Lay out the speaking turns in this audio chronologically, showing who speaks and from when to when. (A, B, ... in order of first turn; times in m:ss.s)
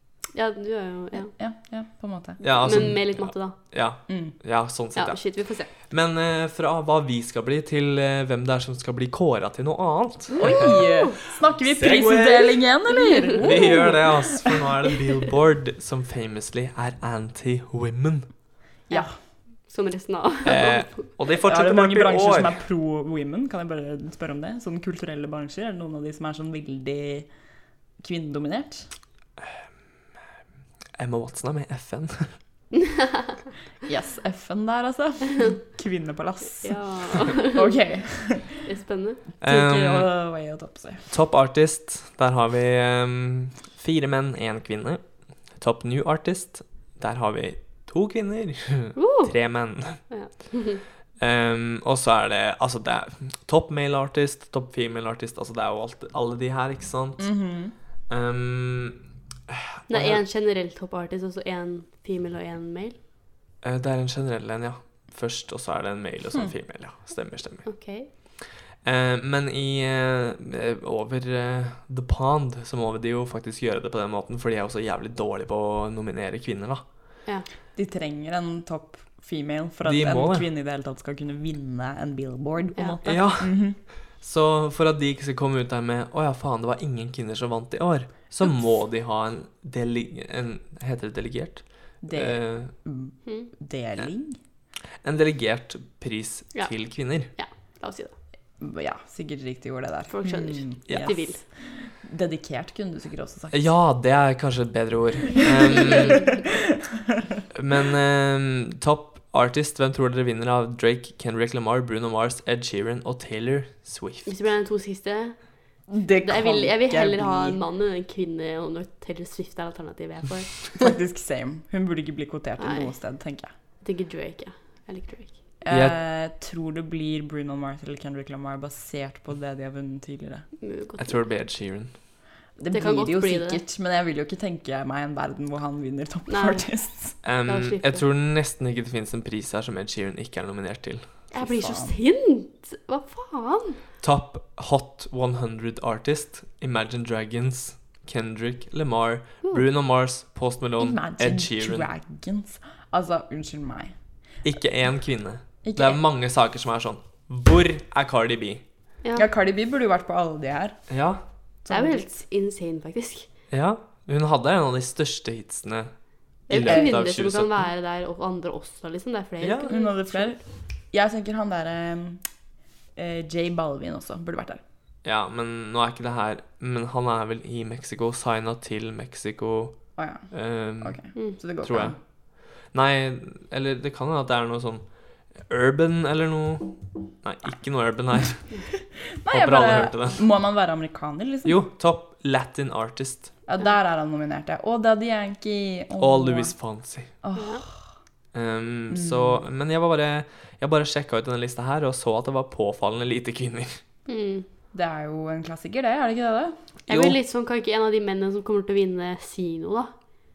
0:00.3-0:01.3 A
0:01.2-0:02.4 B
0:02.4-0:10.8 C
0:02.5-0:03.6 A
0:04.1-0:04.4 B
0:05.0-0:05.7 A
0:10.4-0:11.1 A
0:10.4-0:14.6 B
0:11.6-0:12.6 C
0:13.0-0:13.8 A
0:13.4-0:18.3 C
0:19.7-0:21.0 A
0:20.4-0:22.6 C
0:21.4-0:27.3 B
0:28.0-0:28.9 B
0:31.0-0:32.4 C
0:33.8-0:38.6 B
0:36.6-0:37.7 A
0:38.6-0:39.2 A
0:39.4-0:41.1 B
0:39.4-0:40.1 C
0:41.1-0:50.1 C
0:49.0-0:50.8 A
0:51.2-0:57.4 C
0:57.2-0:57.7 B
0:58.1-1:00.2 C
0:59.9-1:03.0 A
1:03.6-1:16.9 C
1:07.6-1:08.1 A
1:17.7-1:23.8 B
1:19.8-1:20.5 C
1:23.0-1:32.7 C
1:32.0-1:34.4 B
1:33.2-1:33.5 A
1:35.0-1:37.3 C
1:36.5-1:38.1 A
1:38.6-1:43.7 B
1:40.1-1:41.4 A
1:43.5-1:46.4 C
1:45.9-1:46.3 B
1:47.5-1:54.3 C
1:54.2-2:00.9 A
1:55.9-1:57.6 B
2:00.8-2:03.5 B
2:02.6-2:03.0 A
2:03.8-2:05.4 A
2:05.6-2:10.5 B
2:05.7-2:06.0 C
2:10.6-2:11.2 A
2:11.0-2:12.0 C
2:12.6-2:17.2 B
2:12.7-2:13.6 A
2:16.3-2:18.0 A
2:17.2-2:21.3 C
2:21.3-2:23.8 A
2:21.3-2:21.9 B
2:24.0-2:31.9 C
2:30.8-2:33.9 B
2:34.4-2:38.6 C
2:35.6-2:36.0 B
2:39.2-2:40.8 B
2:40.9-2:41.2 C
2:41.6-2:42.1 B
2:41.7-2:43.3 A
2:43.5-2:45.9 C
2:46.5-2:47.5 C
2:46.5-2:50.4 A
2:46.6-2:47.0 B
2:49.4-2:49.7 C
2:49.7-2:52.2 B
2:53.0-2:54.6 B
2:55.0-3:08.6 C
3:00.0-3:02.0 B
3:09.2-3:11.6 B
3:09.3-3:10.3 C
3:11.4-3:13.3 C
3:13.5-3:16.6 B
3:16.0-3:17.1 C
3:17.2-3:17.8 B
3:17.4-3:17.6 A
3:18.3-3:23.8 C
3:18.9-3:19.4 B
3:24.0-3:24.5 A
3:24.7-3:26.5 B
3:26.9-3:30.0 A
3:26.9-3:27.2 C